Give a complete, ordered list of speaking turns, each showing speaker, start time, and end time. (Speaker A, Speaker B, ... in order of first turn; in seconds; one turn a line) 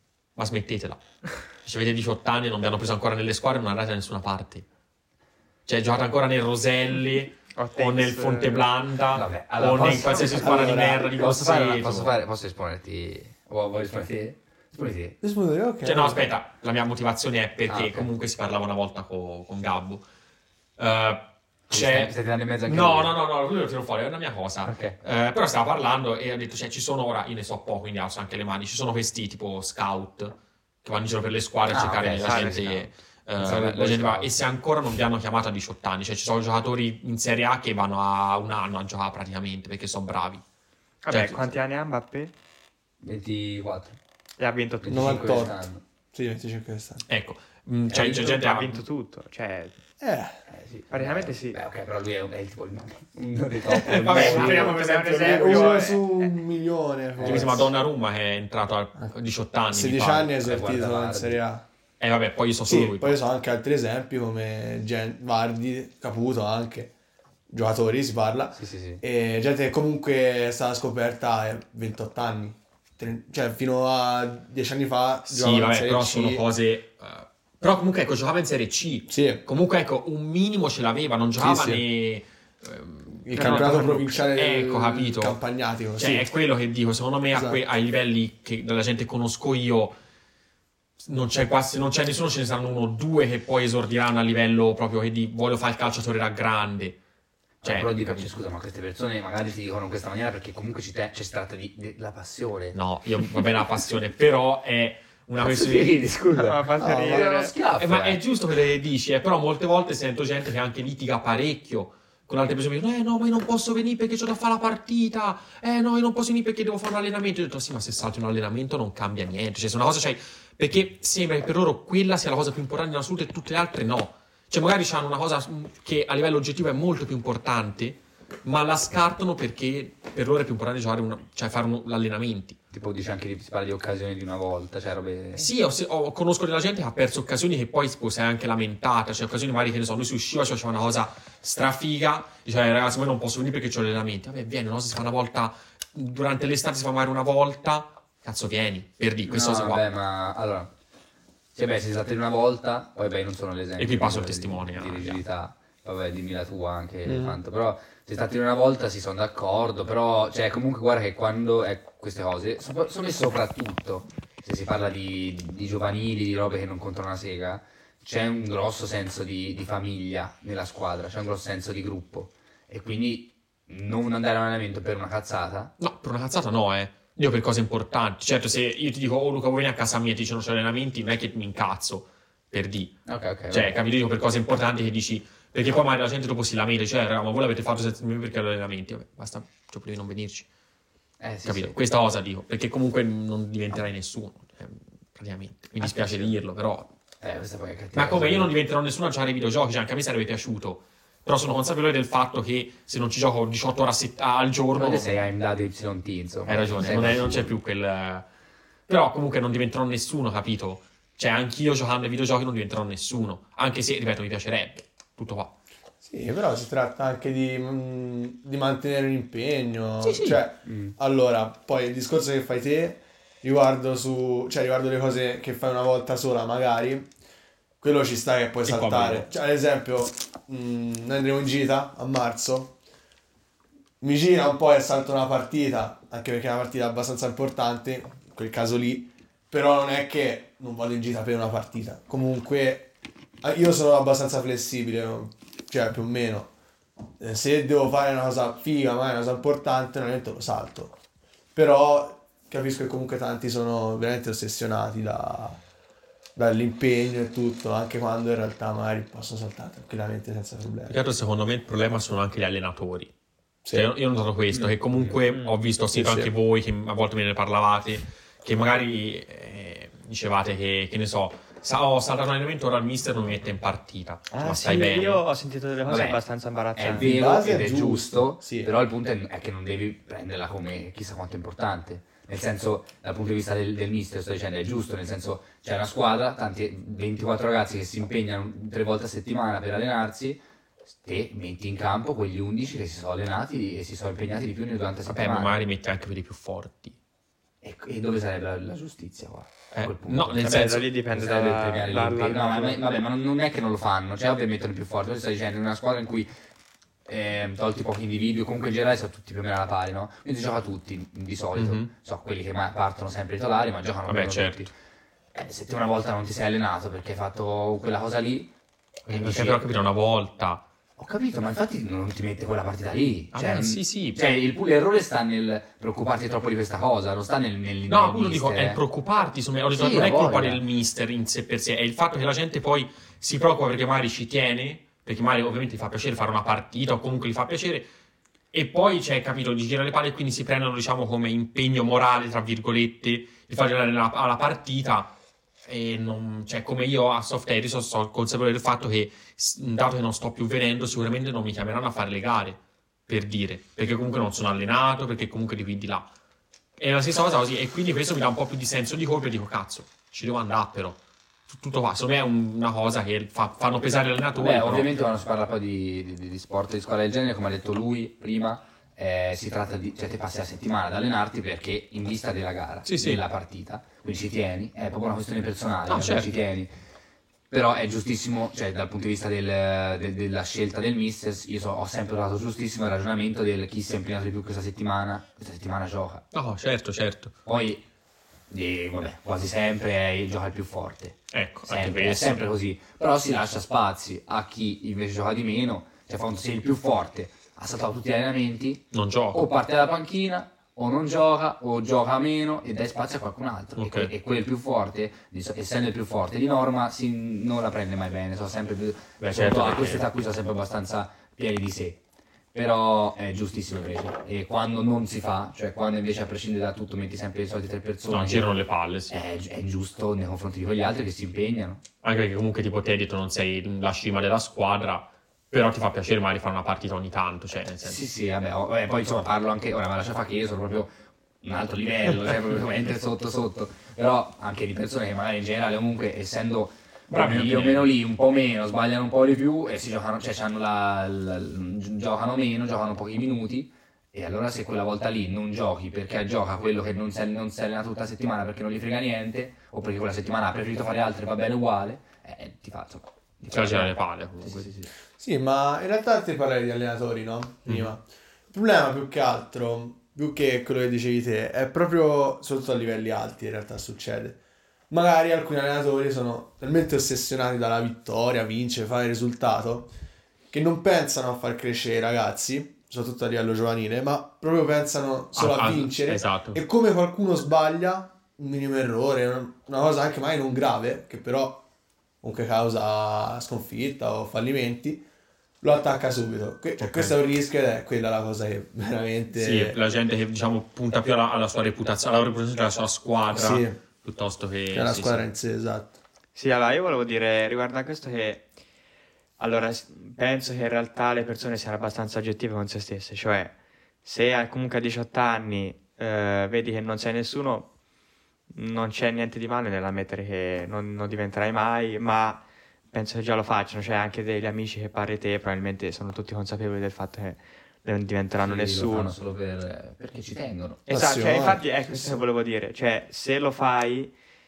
Speaker A: 0.4-4.6
Speaker A: 5.7-12.1
Speaker B: 7.5-8.7
Speaker C: 9.1-15.2
Speaker D: 10.2-11.1
Speaker D: 15.2-16.3
Speaker A: 15.8-20.0
Speaker C: 17.7-18.1
Speaker A: 20.8-22.1
Speaker C: 21.7-23.1
Speaker A: 22.6-40.4
Speaker C: 24.6-25.0
Speaker C: 31.7-32.9
Speaker B: 32.1-32.9
Speaker C: 33.4-34.3
Speaker B: 41.0-42.3
Speaker A: 41.1-41.5
Speaker C: 43.0-44.0
Speaker B: 44.4-45.5
Speaker C: 44.8-45.8
Speaker D: 44.9-47.0
Speaker A: 47.1-48.8
Speaker B: 47.9-49.8
Speaker D: 50.0-50.4
Speaker C: 50.5-54.8
Speaker B: 50.9-51.6
Speaker A: 53.8-55.9
Speaker B: 53.9-56.4
Speaker D: 54.1-57.7
Speaker C: 57.2-57.6
Speaker A: 57.2-60.3
Speaker D: 59.7-61.6
Speaker C: 60.4-61.4
Speaker A: 62.0-63.2
Speaker D: 62.6-66.9
Speaker D: 67.5-76.4
Speaker C: 68.6-69.0
Speaker A: 75.3-85.4
Speaker D: 79.1-79.4
Speaker D: 81.4-81.8
Speaker D: 83.2-86.3
Speaker A: 86.0-90.0
Speaker D: 87.3-87.6
Speaker A: 91.0-97.0
Speaker C: 97.6-102.8
Speaker A: 97.6-98.3
Speaker A: 102.7-106.1
Speaker C: 105.4-108.2
Speaker B: 106.3-107.5
Speaker D: 106.8-107.3
Speaker A: 107.8-132.6
Speaker C: 132.7-135.5
Speaker A: 135.4-149.8
Speaker C: 149.2-150.7
Speaker C: 151.5-175.7
Speaker A: 153.8-155.2
Speaker D: 157.0-157.4
Speaker A: 175.8-190.5
Speaker C: 183.1-183.8
Speaker C: 191.2-191.8
Speaker A: 191.4-196.9
Speaker C: 195.8-196.3
Speaker C: 197.2-198.5
Speaker A: 197.9-205.2
Speaker C: 204.7-207.5
Speaker A: 206.4-208.2
Speaker A: 208.9-215.5
Speaker D: 216.0-227.1
Speaker A: 220.0-220.4
Speaker C: 220.6-220.9
Speaker D: 227.8-232.8
Speaker A: 228.7-229.3
Speaker D: 234.0-242.9
Speaker D: 243.4-246.5
Speaker D: 247.2-251.0
Speaker D: 251.5-255.6
Speaker D: 256.4-261.0
Speaker A: 260.9-263.1
Speaker D: 263.6-263.9
Speaker A: 263.7-275.2
Speaker B: 265.3-265.6
Speaker D: 265.9-266.3
Speaker B: 274.3-277.1
Speaker C: 275.9-276.2
Speaker C: 276.8-290.4
Speaker D: 276.9-278.7
Speaker C: 290.9-295.5
Speaker A: 295.1-297.0
Speaker C: 297.6-306.3
Speaker A: 299.7-300.9
Speaker B: 300.4-302.8
Speaker C: 307.1-314.7
Speaker A: 311.5-311.9
Speaker A: 314.1-314.6
Speaker C: 315.3-318.5
Speaker A: 319.1-320.6
Speaker C: 319.1-319.6
Speaker C: 321.0-328.8
Speaker A: 323.3-324.2
Speaker A: 327.9-337.9
Speaker C: 329.7-330.6
Speaker A: 338.5-345.1
Speaker A: 345.6-356.1
Speaker A: 356.8-364.9
Speaker C: 364.4-376.7
Speaker A: 372.9-373.2
Speaker A: 375.9-376.3
Speaker C: 377.5-386.2
Speaker A: 386.3-387.3
Speaker C: 387.5-387.8
Speaker C: 388.5-412.0
Speaker A: 391.3-392.4
Speaker A: 398.9-399.4
Speaker A: 403.8-404.1
Speaker A: 409.2-410.0
Speaker C: 412.5-418.5
Speaker A: 418.1-419.2
Speaker C: 419.1-421.8
Speaker A: 422.0-428.0
Speaker C: 427.8-454.9
Speaker A: 437.1-437.9
Speaker A: 453.5-454.7
Speaker D: 455.2-469.9
Speaker D: 470.5-481.6
Speaker A: 475.4-476.6
Speaker D: 482.2-485.0
Speaker D: 485.6-489.8
Speaker A: 486.8-487.1
Speaker A: 489.4-495.2
Speaker D: 493.3-493.8
Speaker D: 494.7-496.0
Speaker B: 496.4-498.5
Speaker B: 499.4-507.7
Speaker B: 508.5-519.1
Speaker C: 518.4-520.8
Speaker B: 520.9-524.1
Speaker D: 520.9-521.7